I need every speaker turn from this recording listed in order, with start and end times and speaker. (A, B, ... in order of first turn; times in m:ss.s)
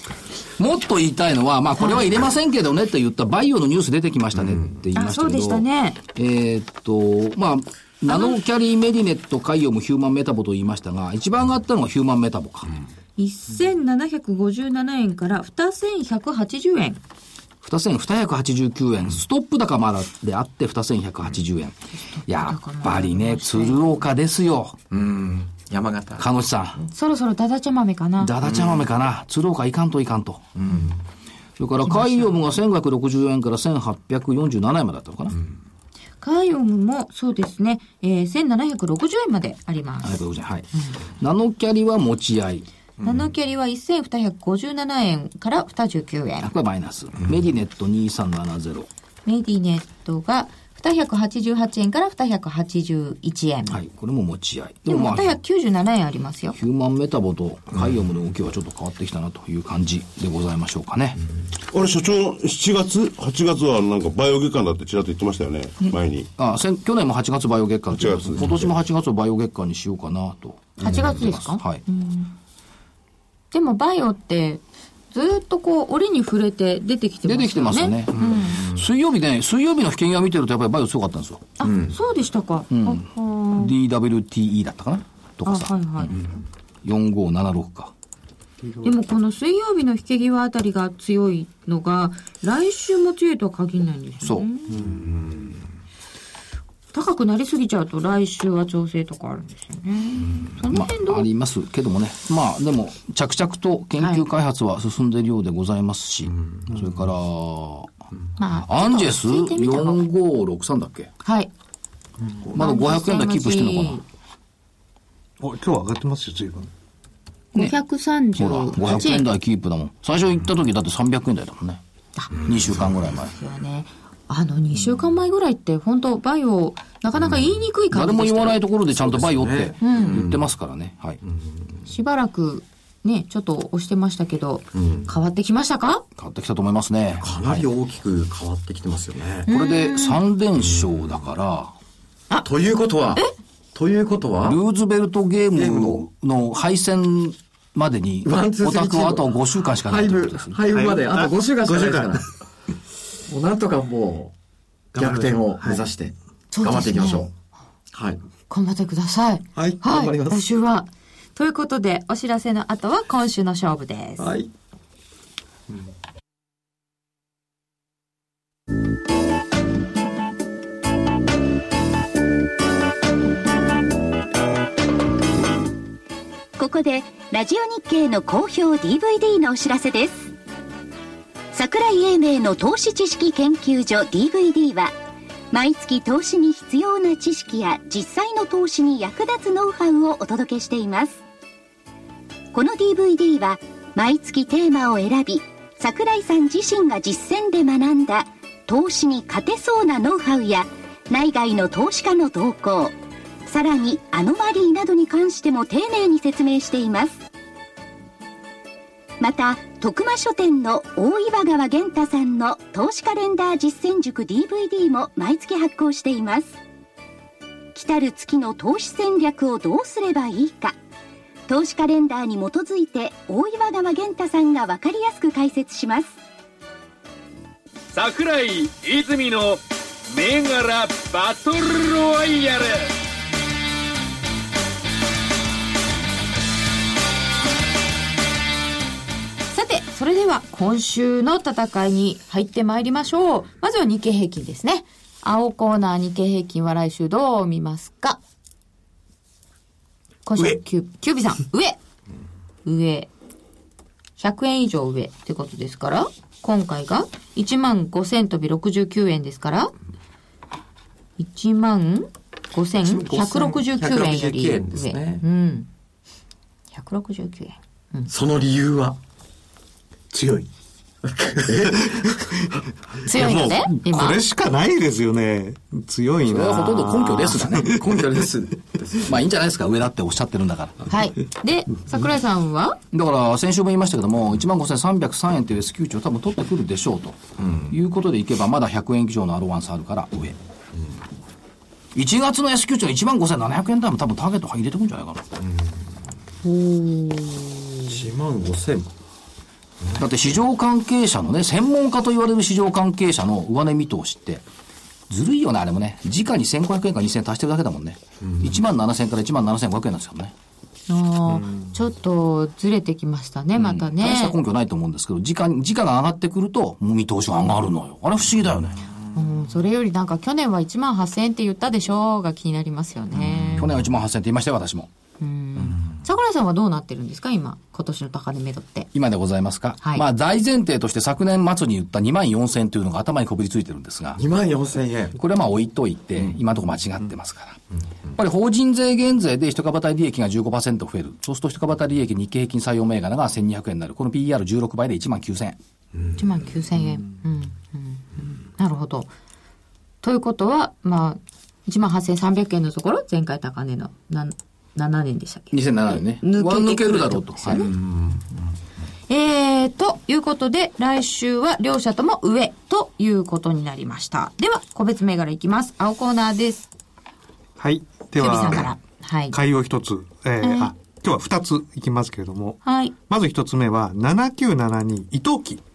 0:00.6-0:12.7 A
0:01.8-0:02.0 B
0:04.9-0:06.0 B
0:08.1-0:08.4 B
0:13.2-0:17.0 B
0:17.6-0:24.8 A
0:22.0-0:23.9 B
0:24.9-0:26.3 C
0:26.2-0:26.8 A
0:26.9-0:28.3 B
0:28.2-0:30.4 A
0:28.4-0:28.8 C
0:30.6-0:31.0 C
0:31.6-0:35.4 A
0:31.8-0:32.4 B
0:36.2-0:40.2 B
0:40.0-0:42.7 A
0:40.7-0:41.0 B
0:43.0-0:43.3 C
0:43.0-0:46.5 B
0:46.4-0:48.9 A
0:49.2-0:53.8 B
0:53.6-0:55.4 A
0:54.9-0:56.6 B
0:56.5-1:01.2 A
1:01.7-1:06.3 D
1:06.4-1:11.8 A
1:07.9-1:08.7 D
1:10.8-1:12.3 B
1:13.5-1:18.6 B
1:17.2-1:21.5 A
1:18.2-1:18.8 C
1:21.6-1:23.7 B
1:21.6-1:22.0 C
1:22.7-1:26.2 A
1:25.4-1:26.1 B
1:26.8-1:27.9 A
1:28.6-1:28.9 E
1:28.8-1:35.0 B
1:34.2-1:34.5 A
1:36.9-1:41.3 B
1:40.7-1:47.9 A
1:44.0-1:44.2 B
1:48.4-1:50.0 B
1:48.6-1:51.1 A
1:51.2-1:51.5 B
1:52.5-1:54.0 A
1:52.5-1:54.0 B
1:55.4-1:56.7 E
1:57.5-1:59.2 B
1:58.3-2:01.8 A
2:02.3-2:03.3 A
2:03.1-2:08.6 B
2:07.9-2:11.2 A
2:09.0-2:10.4 C
2:09.8-2:10.2 B
2:11.2-2:11.6 C
2:11.9-2:16.0 B
2:14.7-2:15.1 C
2:16.2-2:17.6 A
2:17.2-2:19.5 C
2:19.5-2:20.2 B
2:19.5-2:21.7 A
2:22.4-2:23.2 C
2:23.7-2:24.6 C
2:24.4-2:30.6 A
2:25.5-2:26.0 C
2:28.2-2:32.3 C
2:30.7-2:32.2 E
2:33.3-2:34.3 C
2:35.0-2:35.8 E
2:35.0-2:37.3 C
2:36.5-2:37.2 B
2:37.9-2:38.2 C
2:38.5-2:44.3 B
2:39.6-2:40.4 C
2:44.2-2:44.5 C
2:56.6-3:00.3 F
3:01.5-3:04.9 F
3:05.5-3:11.2 F
3:12.5-3:22.9 F
3:23.5-3:27.2 F
3:29.2-3:36.6 F
3:37.7-3:40.8 F
3:41.5-3:46.1 F
3:47.9-3:52.9 G
3:59.5-4:08.2 B
4:10.2-4:11.8 B
4:12.6-4:13.1 B
4:14.2-4:19.7 B
4:21.2-4:25.7 B
4:22.8-4:25.2 C
4:26.7-4:28.1 B
4:28.1-4:29.0 C
4:30.1-4:30.5 E
4:31.2-4:32.0 C
4:31.8-4:32.4 E
4:33.0-4:37.8 E
4:33.0-4:34.2 B
4:36.2-4:37.8 A
4:37.6-4:39.2 C
4:39.0-4:40.9 A
4:40.9-4:42.8 B
4:42.9-4:50.4 A
4:47.4-4:47.7 C
4:51.9-4:55.2 A
4:55.4-4:55.7 C
4:56.4-4:58.0 B
4:57.9-4:58.9 C
5:00.0-5:04.4 A
5:05.1-5:10.3 A
5:08.2-5:08.6 C
5:10.9-5:14.4 B
5:11.3-5:11.7 E
5:13.6-5:18.8 A
5:19.1-5:23.7 B
5:23.3-5:23.7 C
5:23.5-5:24.9 A
5:25.2-5:28.9 B
5:28.9-5:34.2 A
5:34.2-5:35.2 C
5:35.1-5:37.6 A
5:38.1-5:45.6 A
5:46.2-5:49.1 B
5:50.0-5:57.7 B
5:55.5-5:57.7 A
5:57.7-5:58.2 C
5:59.1-6:06.7 B
6:07.6-6:08.7 E
6:08.2-6:09.4 B
6:09.3-6:15.6 E
6:10.4-6:10.7 B
6:12.6-6:12.9 B